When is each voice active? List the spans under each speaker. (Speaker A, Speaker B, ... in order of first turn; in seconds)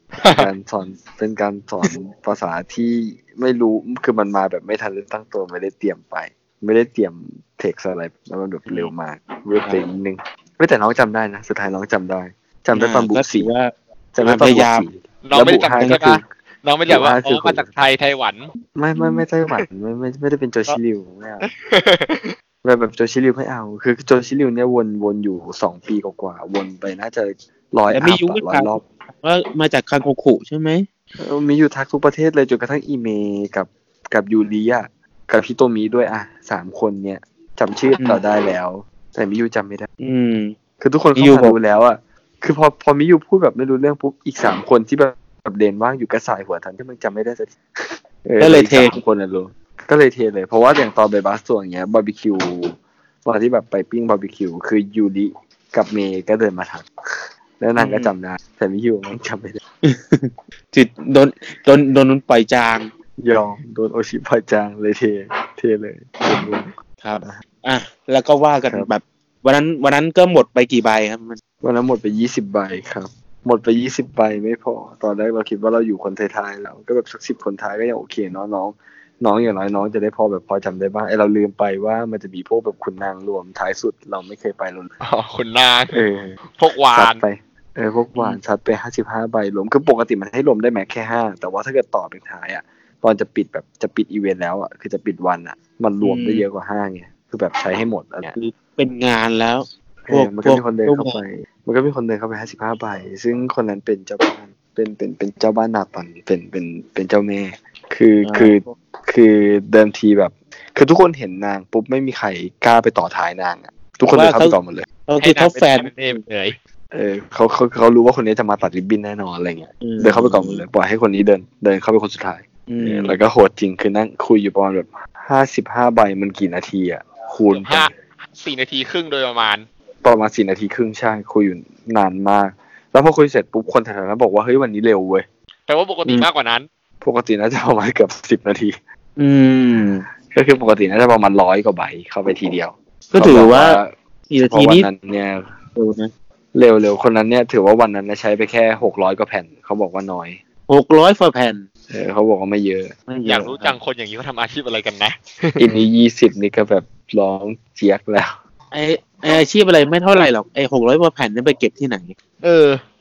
Speaker A: 0.2-0.5, 15.2-18.5, 21.4-22.3, 85.0-86.0, 86.6-87.2, 115.2-116.6, 127.5-129.7, 135.7-136.7, 153.3-155.6, 162.4-162.8
Speaker B: 0.3-13.5, 14.1-16.2, 16.9-17.7, 18.8-21.5, 22.6-28.9, 31.2-39.9, 40.8-59.6, 63.2-66.7, 71.6-84.9, 85.9-86.4, 86.9-98.3, 100.0-114.9, 116.9-127.9, 130.0-135.3, 137.0-138.8, 140.3-145.5, 146.5-150.4, 151.9-152.9, 155.6-158.3
Speaker C: 12.8-14.9, 15.8-16.1, 27.9-30.9, 40.0-40.5, 41.2-41.6, 48.4-49.0, 57.8-58.1, 59.8-62.9, 67.0-71.4, 96.0-96.5, 98.3-101.2, 108.2-108.7, 114.1-116.2, 119.8-120.6, 122.7-123.2, 139.2-140.1, 143.1-144.9, 145.8-146.1, 150.7-151.7, 153.1-153.8, 158.7-162.1